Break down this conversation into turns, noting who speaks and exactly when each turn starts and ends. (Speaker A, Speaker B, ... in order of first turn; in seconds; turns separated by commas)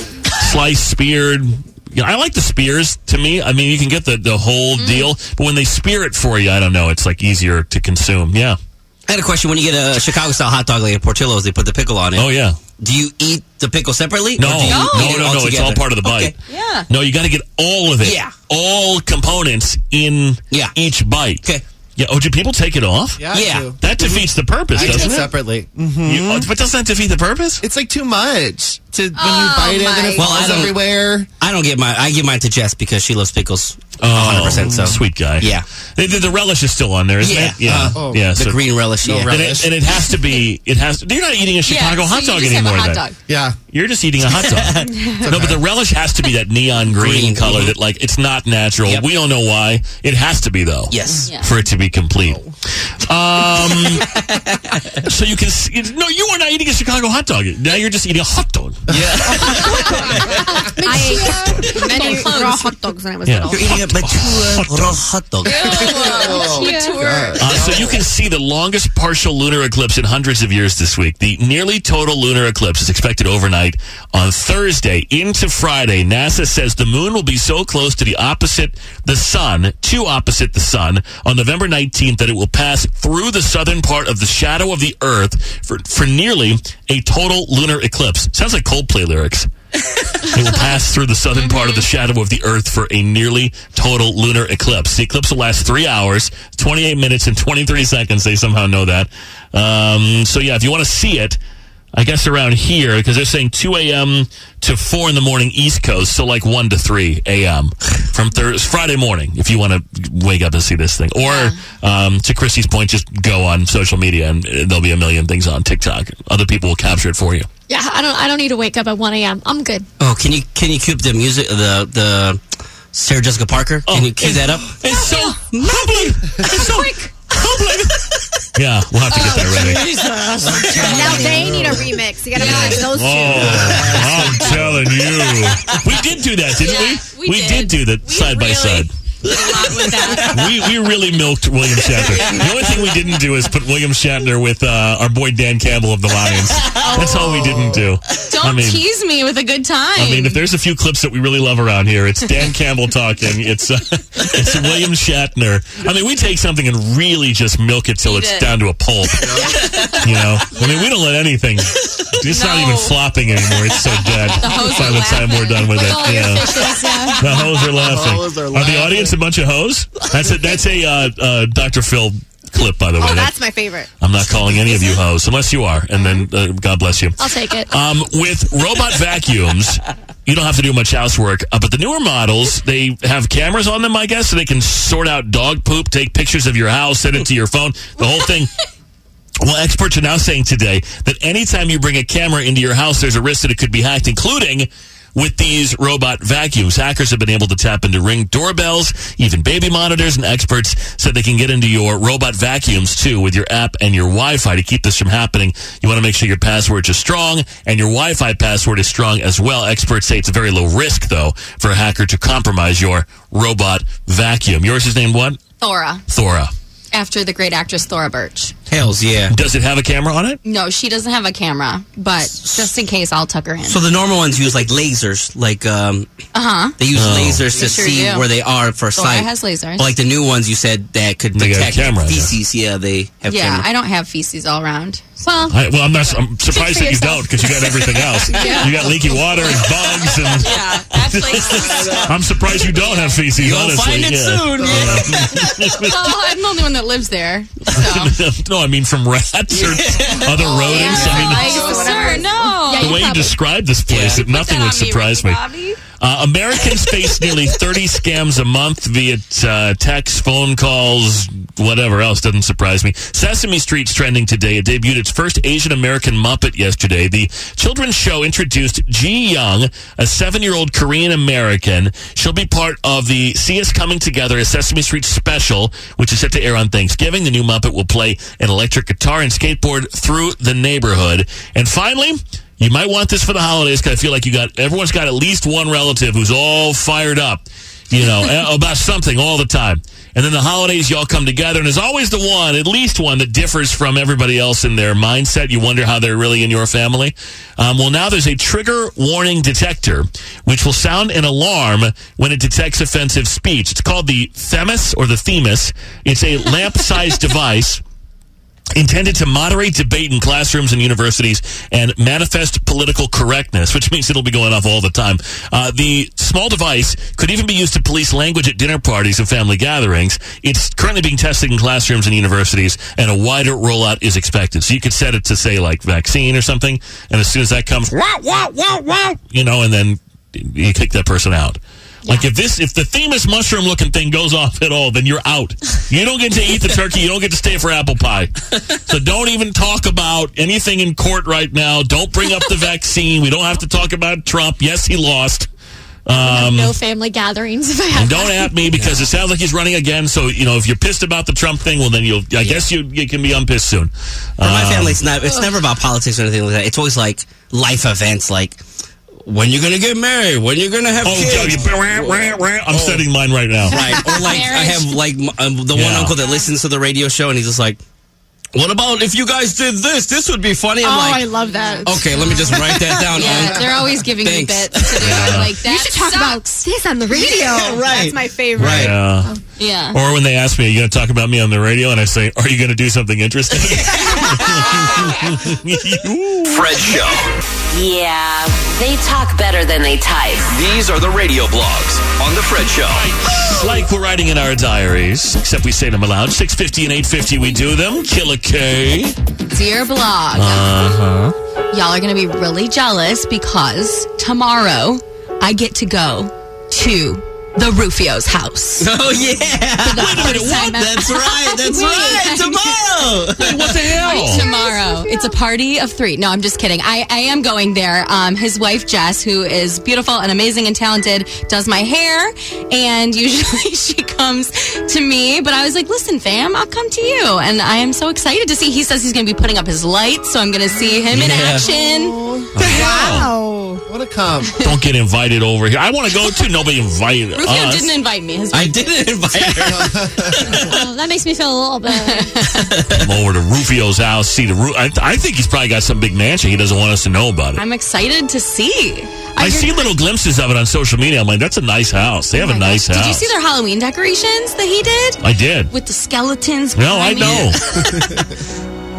Speaker A: 0.4-8.6, Speaker B: 4.8-5.1, Speaker C: 9.1-16.3, Speaker A: 12.1-12.6, Speaker A: 14.4-16.3, Speaker B: 14.7-15.2, Speaker B: 16.5-16.9, Speaker A: 16.9-21.4, Speaker C: 18.0-18.3, Speaker A: 22.0-23.2, Speaker D: 23.2-23.8, Speaker C: 23.3-24.2, Speaker A: 23.8-25.3, Speaker D: 24.7-26.5, Speaker A: 26.0-27.6, Speaker D: 27.6-31.3, Speaker B: 29.1-30.4, Speaker C: 30.1-30.8, Speaker C: 31.4-35.6, Speaker A: 34.0-38.6, Speaker D: 34.5-35.0, Speaker C: 37.2-37.6, Speaker D: 37.6-38.3, Speaker C: 38.3-39.4, Speaker D: 39.0-39.7, Speaker A: 39.3-43.0, Speaker B: 41.6-43.1, Speaker D: 43.3-43.6, Speaker A: 43.7-52.4, Speaker C: 44.3-44.9, Speaker D: 45.2-45.6, Speaker C: 46.9-47.7, Speaker C: 50.9-51.3, Speaker B: 51.2-51.5, Speaker A: 53.0-54.1, Speaker C: 53.9-54.8, Speaker A: 55.0-59.5, Speaker C: 58.9-59.5, Speaker D: 58.9-60.5, Speaker B: 59.8-60.3, Speaker E: 60.6-62.5, Speaker F: 60.8-63.8, Speaker B: 61.5-62.7, Speaker A: 63.2-65.0, Speaker C: 63.5-65.8, Speaker B: 65.4-67.7, Speaker D: 65.7-68.0, Speaker E: 65.9-67.0, Speaker A: 67.4-89.5, Speaker A: 90.2-101.4, Speaker B: 91.4-91.8, Speaker A: 101.9-117.5, Speaker B: 111.2-111.6, Speaker E: 117.7-119.9, Speaker C: 120.0-122.4, Speaker C: 122.9-124.8, Speaker A: 123.9-129.8, Speaker B: 125.0-125.3, Speaker C: 125.5-126.1, Speaker C: 129.3-131.6, Speaker D: 130.4-132.0, Speaker F: 130.8-133.5, Speaker A: 132.3-138.9, Speaker B: 132.4-132.8, Speaker D: 133.3-135.0, Speaker C: 133.5-134.0, Speaker B: 136.6-140.4, Speaker C: 140.0-140.4, Speaker A: 140.1-148.8, Speaker C: 141.9-142.7, Speaker C: 146.5-147.1, Speaker B: 146.9-147.4, Speaker B: 148.2-150.4, Speaker A: 149.9-173.4, Speaker B: 158.0-158.5, Speaker D: 159.2-159.7, Speaker B: 160.5-160.9, Speaker B: 162.3-163.0, Speaker B: 164.3-167.2, Speaker E: 165.8-167.3, Speaker D: 167.7-169.2, Speaker F: 173.0-173.9, Speaker A: 174.0-177.2, Speaker E: 177.2-177.7, Speaker A: 177.7-188.5, Speaker A: 189.4-215.4, Speaker B: 215.6-216.0, Speaker A: 216.1-216.5, Speaker B: 216.9-218.5, Speaker C: 218.7-219.3, Speaker A: 219.3-220.4, Speaker B: 220.4-223.8, Speaker C: 222.3-222.7, Speaker C: 223.6-226.1, Speaker B: 226.3-226.7, Speaker C: 226.8-233.7, Speaker A: 226.9-227.5, Speaker B: 227.5-228.2, Speaker B: 228.9-229.9, Speaker A: 231.3-232.3, Speaker B: 233.2-235.5, Speaker A: 235.5-246.1, Speaker B: 236.1-238.9, Speaker E: 236.6-237.0, Speaker B: 240.3-242.1, Speaker D: 241.5-242.2, Speaker B: 242.6-243.2, Speaker C: 243.3-245.3, Speaker D: 244.6-245.6, Speaker B: 245.6-248.1, Speaker A: 247.7-251.9, Speaker C: 249.5-251.4, Speaker B: 250.4-253.3, Speaker D: 251.2-252.2, Speaker E: 251.4-253.3, Speaker A: 252.7-255.4, Speaker C: 253.9-254.2, Speaker B: 254.1-255.8, Speaker A: 256.0-307.8, Speaker A: 308.8-345.5, Speaker A: 346.1-346.8, Speaker E: 346.1-348.6, Speaker A: 347.9-355.0, Speaker C: 348.7-349.1, Speaker C: 354.4-358.6, Speaker C: 359.2-363.1, Speaker A: 361.0-363.8, Speaker C: 363.6-367.8, Speaker B: 364.0-364.9, Speaker A: 365.7-366.1, Speaker C: 368.5-371.3, Speaker F: 370.8-373.1, Speaker B: 371.5-372.6, Speaker C: 371.9-375.4, Speaker B: 373.1-376.4, Speaker A: 375.0-375.6, Speaker F: 375.6-379.0, Speaker C: 377.1-378.9, Speaker A: 378.6-379.3, Speaker B: 379.6-380.0, Speaker A: 379.9-386.9, Speaker C: 383.7-384.7, Speaker G: 386.4-387.2, Speaker H: 387.7-390.5, Speaker G: 390.5-393.1, Speaker A: 392.9-399.1, Speaker B: 399.5-400.6, Speaker A: 400.3-401.3, Speaker B: 401.7-408.9, Speaker C: 408.8-414.0, Speaker B: 409.8-432.9, Speaker A: 409.9-410.7, Speaker A: 413.4-414.5, Speaker C: 431.1-431.7, Speaker D: 431.7-432.8, Speaker C: 432.6-432.8, Speaker A: 432.6-433.3, Speaker F: 432.7-433.8, Speaker D: 433.9-434.5, Speaker A: 434.6-437.9, Speaker B: 437.4-439.2, Speaker C: 438.5-440.1, Speaker D: 439.4-440.7, Speaker E: 440.6-442.4, Speaker B: 441.9-442.7, Speaker C: 442.5-443.1, Speaker A: 442.9-447.6, Speaker B: 447.6-449.9, Speaker A: 449.4-453.3, Speaker B: 452.4-457.8, Speaker A: 455.2-455.7, Speaker A: 456.7-457.9